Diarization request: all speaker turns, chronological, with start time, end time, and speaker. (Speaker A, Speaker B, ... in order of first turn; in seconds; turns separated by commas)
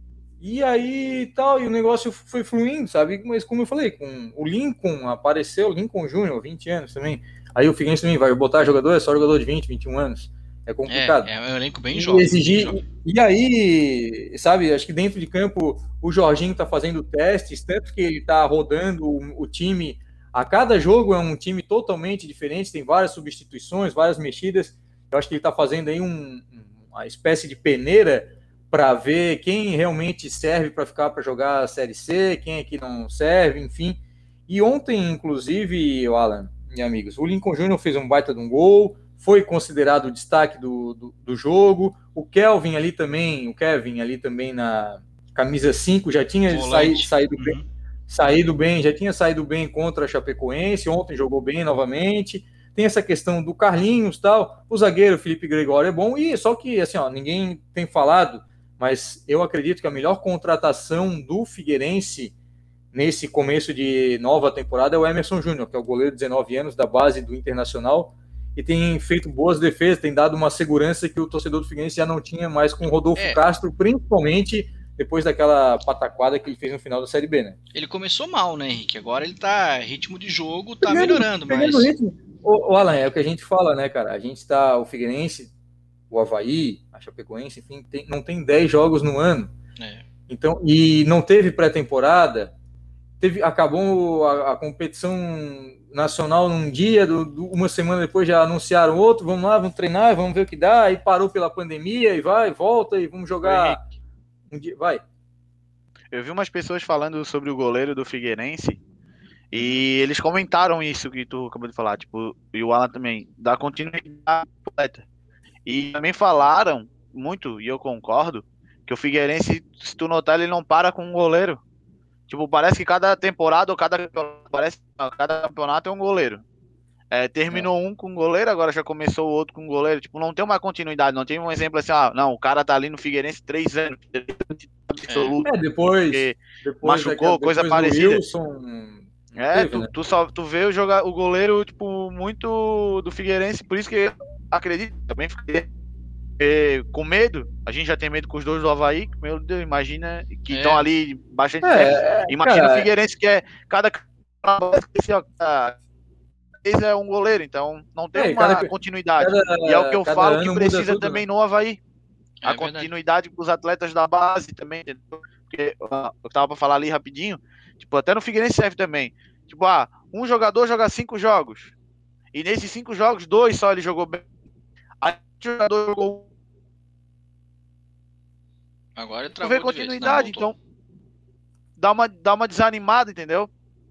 Speaker A: 0.4-11.3, Speaker B: 10.9-12.8, Speaker A: 11.9-62.3, Speaker B: 46.5-47.6, Speaker A: 62.9-77.6, Speaker B: 77.7-81.9, Speaker A: 80.8-85.5, Speaker A: 86.1-89.5, Speaker B: 89.8-90.0, Speaker A: 90.3-92.5, Speaker A: 93.2-103.8, Speaker C: 103.4-103.8, Speaker A: 104.5-105.0, Speaker C: 106.1-108.8, Speaker C: 109.5-115.0, Speaker C: 115.7-121.6, Speaker C: 122.3-126.4, Speaker C: 127.1-135.5, Speaker B: 135.1-135.3, Speaker A: 135.4-139.9, Speaker C: 136.1-138.2, Speaker C: 139.3-145.7, Speaker C: 146.4-155.8, Speaker B: 150.5-150.8, Speaker A: 151.6-152.9, Speaker C: 156.6-161.8, Speaker A: 158.1-161.2, Speaker B: 162.4-162.9, Speaker C: 162.4-171.7, Speaker C: 172.3-174.2, Speaker C: 175.0-176.2, Speaker B: 179.0-180.5, Speaker C: 179.4-180.6, Speaker C: 181.8-183.5